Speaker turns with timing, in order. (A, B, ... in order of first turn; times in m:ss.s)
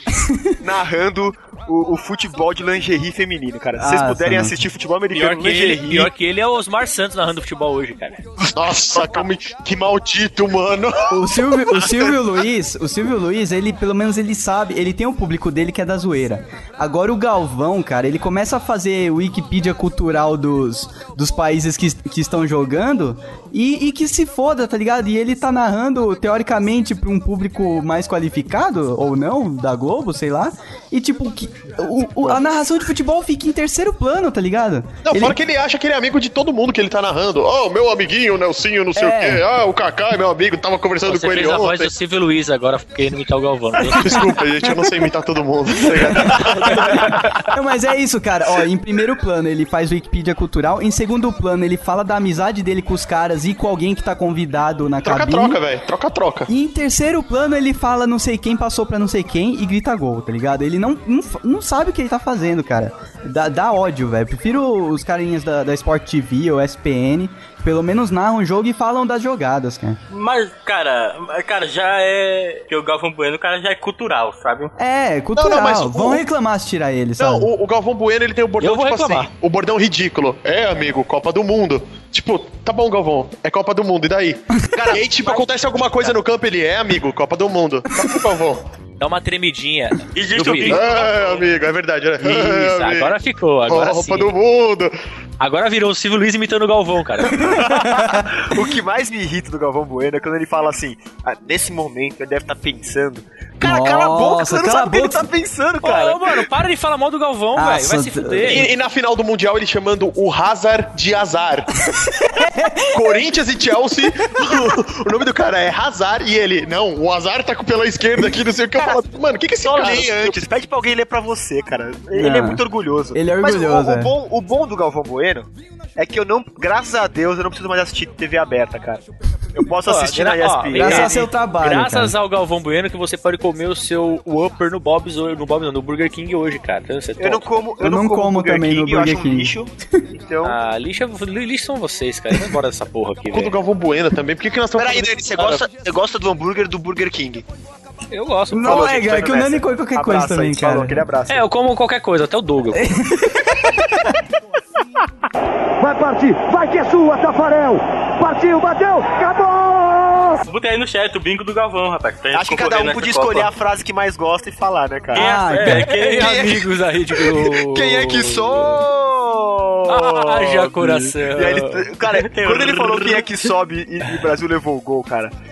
0:00.3-0:00.6 A
0:00.6-0:06.1 B
0:03.8-0:04.6 A
0:05.1-0:08.2 C
0:08.4-0:09.3 B
0:08.6-0:11.2 D
0:11.1-0:35.3 A
0:35.0-0:41.9 D
0:39.0-0:39.4 A
0:41.0-0:44.3 C
0:44.0-0:44.2 A
0:44.0-0:47.2 D
0:46.1-0:46.7 B
0:46.2-0:55.6 A
0:55.0-0:56.5 D
0:56.5-1:10.0 A
1:10.1-1:14.7 E
1:14.8-1:17.5 A
1:15.4-1:16.2 D
1:17.2-1:28.6 D
1:18.6-1:19.3 C
1:24.7-1:25.4 B
1:29.0-1:30.8 C
1:30.2-1:31.5 E
1:30.6-1:33.1 D
1:32.2-1:34.3 C
1:33.7-1:34.9 D
1:35.4-1:37.7 C
1:37.3-1:38.3 A
1:38.1-1:46.5 B
1:43.6-1:45.3 A
1:45.8-1:48.7 C
1:47.6-1:48.7 A
1:48.4-1:51.7 D
1:52.2-1:53.0 A
1:52.9-2:00.4 D
1:58.8-2:09.0 B
2:02.1-2:02.6 A
2:03.1-2:04.1 A
2:09.6-2:11.1 B
2:09.8-2:17.5 C
2:10.7-2:12.1 A
2:17.2-2:20.6 B
2:17.8-2:19.5 A
2:20.4-2:23.6 C
2:23.3-2:25.6 D
2:24.8-2:27.4 B
2:28.1-2:29.1 C
2:28.5-2:31.0 A
2:28.6-2:31.4 B
2:31.3-2:32.9 C
2:32.8-2:34.2 A
2:35.8-2:40.4 F
2:40.5-2:43.5 E
2:42.3-2:45.3 B
2:45.2-2:45.9 A
2:45.2-2:48.8 C
2:45.5-2:46.5 E
2:46.2-2:55.3 B
2:49.9-2:51.9 C
2:52.1-2:53.3 E